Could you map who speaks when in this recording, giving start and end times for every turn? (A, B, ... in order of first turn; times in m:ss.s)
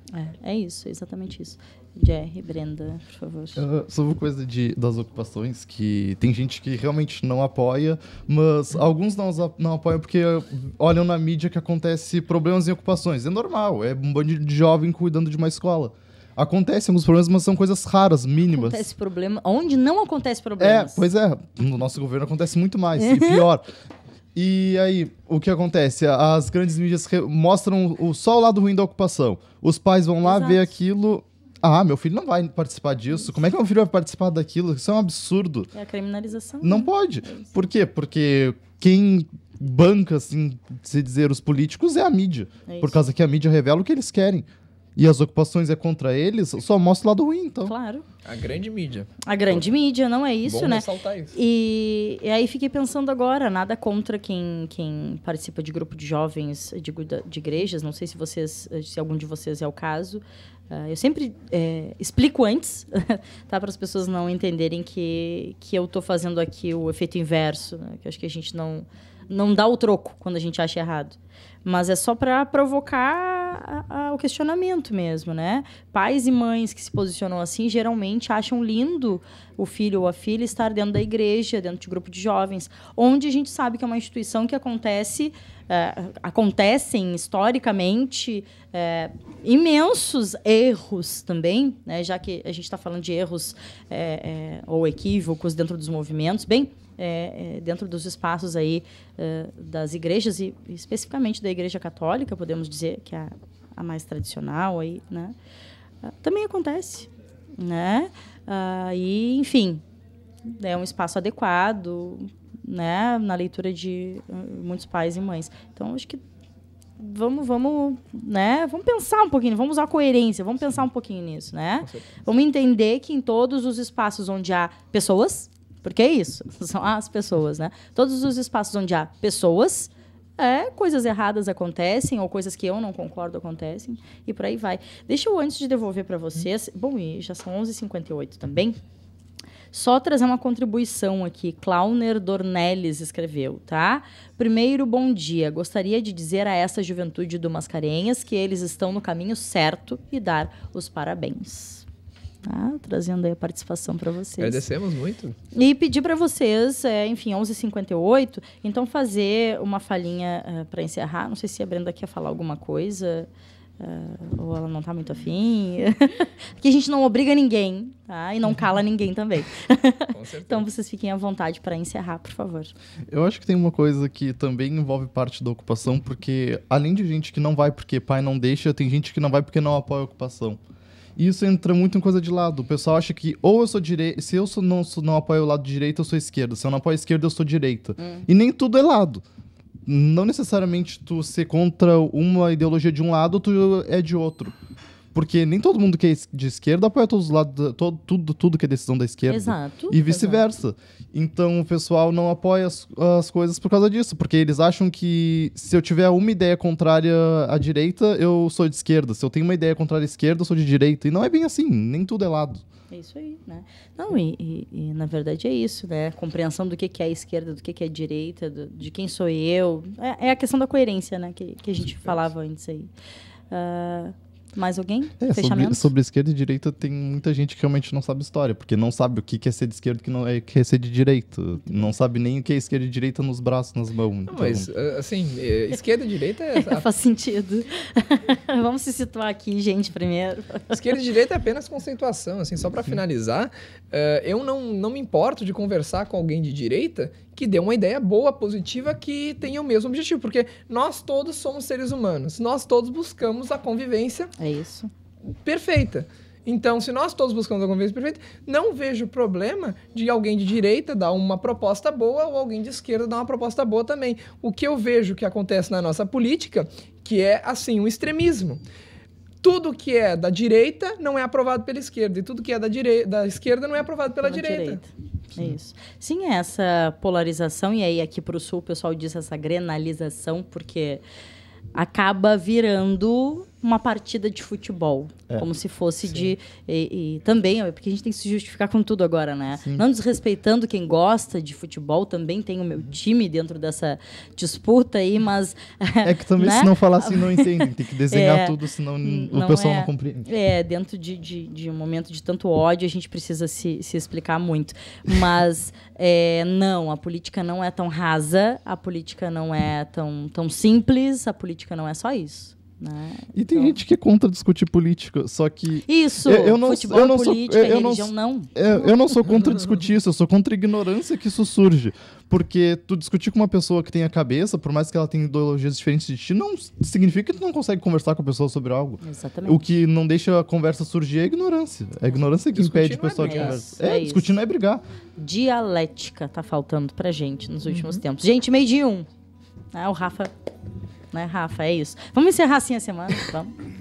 0:00.1-0:03.6 A
0:03.6-0:18.8 B
0:18.5-0:21.0 A
0:20.6-0:23.6 B
0:23.0-0:23.4 A
0:24.4-0:35.7 B
0:30.2-0:30.7 A
0:35.7-0:37.5 A
0:36.6-0:47.8 B
0:42.7-0:43.0 A
0:47.6-0:48.1 A
0:48.2-0:49.7 C
0:49.3-1:45.4 A
0:50.4-0:51.4 C
1:46.0-1:49.8 A
1:50.5-1:56.2 A
1:57.0-2:18.8 A
2:01.8-2:02.1 C
2:19.7-2:31.8 A
2:32.4-2:34.6 A
2:34.4-2:35.4 C
2:35.5-2:52.7 A
2:50.1-2:50.7 C
2:53.1-3:00.6 B
3:01.2-3:09.2 B
3:08.0-3:08.3 A
3:09.9-3:14.6 B
3:15.1-3:32.6 B
3:19.3-3:20.4 A
3:32.9-3:42.9 A
3:43.5-3:45.9 A
3:45.2-3:54.7 B
3:54.3-3:56.8 C
3:56.6-4:00.8 A
4:00.7-4:14.3 C
4:14.4-4:14.9 A
4:15.3-4:28.6 C
4:29.4-4:34.8 C
4:34.2-4:41.0 A
4:41.8-5:13.8 A
4:56.0-5:00.3 B
5:13.4-5:34.8 B
5:15.9-5:18.5 A
5:29.0-5:29.6 A
5:32.5-5:33.6 C
5:33.2-5:34.4 A
5:35.2-5:39.1 A
5:39.7-5:40.3 A
5:41.1-5:43.6 A